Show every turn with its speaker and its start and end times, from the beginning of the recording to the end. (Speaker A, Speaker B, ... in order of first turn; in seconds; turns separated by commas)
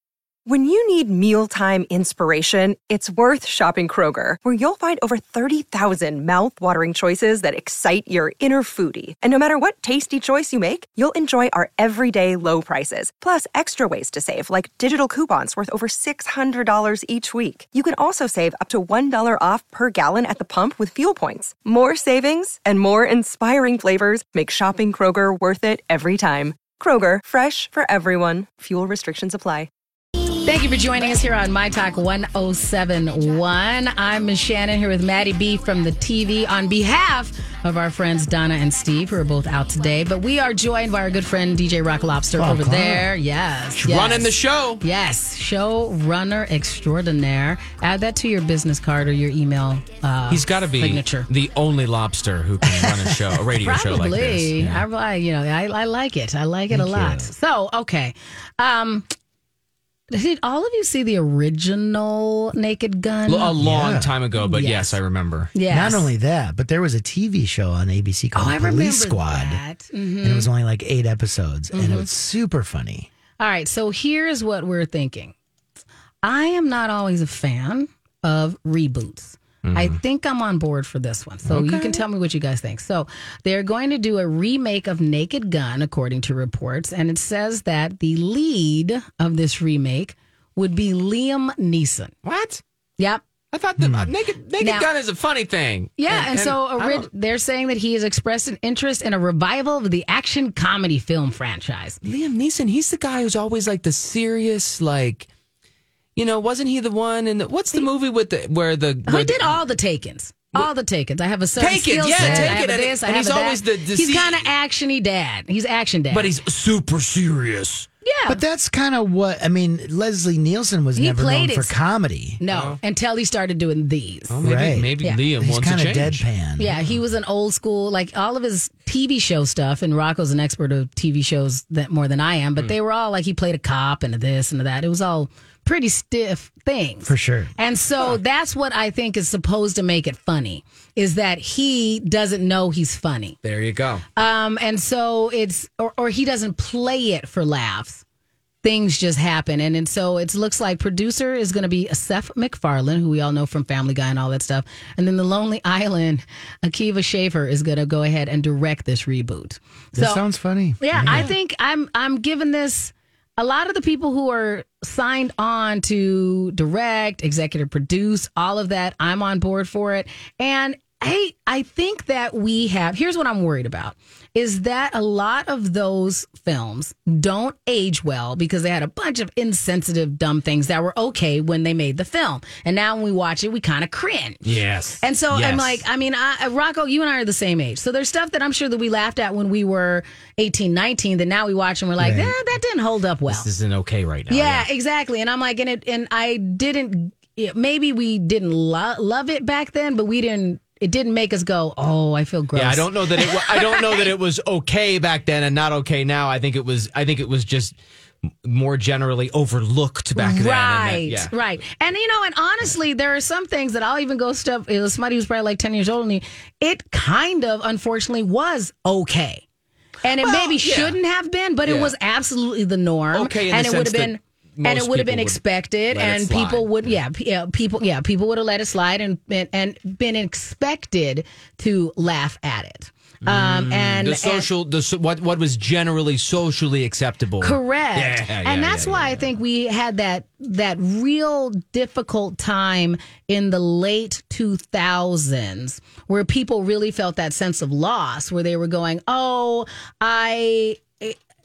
Speaker A: 0.5-29.7, Speaker B: 30.4-44.3, Speaker C: 42.4-43.2, Speaker D: 43.8-44.8, Speaker B: 44.8-51.3, Speaker D: 50.3-54.8, Speaker B: 53.6-59.0, Speaker C: 56.7-57.3, Speaker B: 60.1-63.6, Speaker D: 63.2-65.5, Speaker C: 63.6-64.1, Speaker B: 64.3-65.0, Speaker B: 65.5-66.1, Speaker C: 65.7-69.6, Speaker B: 68.3-70.5, Speaker C: 70.2-73.1, Speaker B: 71.7-72.1, Speaker B: 73.4-75.3, Speaker B: 76.2-92.1, Speaker D: 79.6-80.0, Speaker D: 81.5-82.0, Speaker D: 92.2-92.6, Speaker D: 93.5-97.1, Speaker C: 93.8-94.1, Speaker B: 94.6-94.9, Speaker B: 96.0-102.0, Speaker D: 102.0-105.3, Speaker D: 106.2-109.6, Speaker B: 109.1-116.3, Speaker D: 111.6-114.4, Speaker C: 112.1-112.6, Speaker D: 116.1-117.9, Speaker B: 118.0-118.4, Speaker C: 118.3-122.4, Speaker B: 121.0-121.7, Speaker B: 122.4-124.4, Speaker D: 122.5-122.8, Speaker D: 124.3-126.2, Speaker C: 124.4-126.9, Speaker B: 126.6-143.4, Speaker C: 137.0-137.5, Speaker D: 143.4-144.0, Speaker B: 144.2-148.0, Speaker B: 148.6-160.2, Speaker C: 159.9-161.3, Speaker B: 160.8-184.4, Speaker D: 184.4-185.8, Speaker B: 185.0-193.5, Speaker C: 192.0-192.3, Speaker D: 193.3-194.7, Speaker B: 194.3-204.1, Speaker D: 202.5-207.8, Speaker D: 208.4-211.3, Speaker B: 210.2-219.4, Speaker B: 220.0-234.5, Speaker D: 220.2-221.0, Speaker D: 221.6-221.9, Speaker D: 223.1-227.0, Speaker D: 233.2-239.3, Speaker B: 237.4-251.2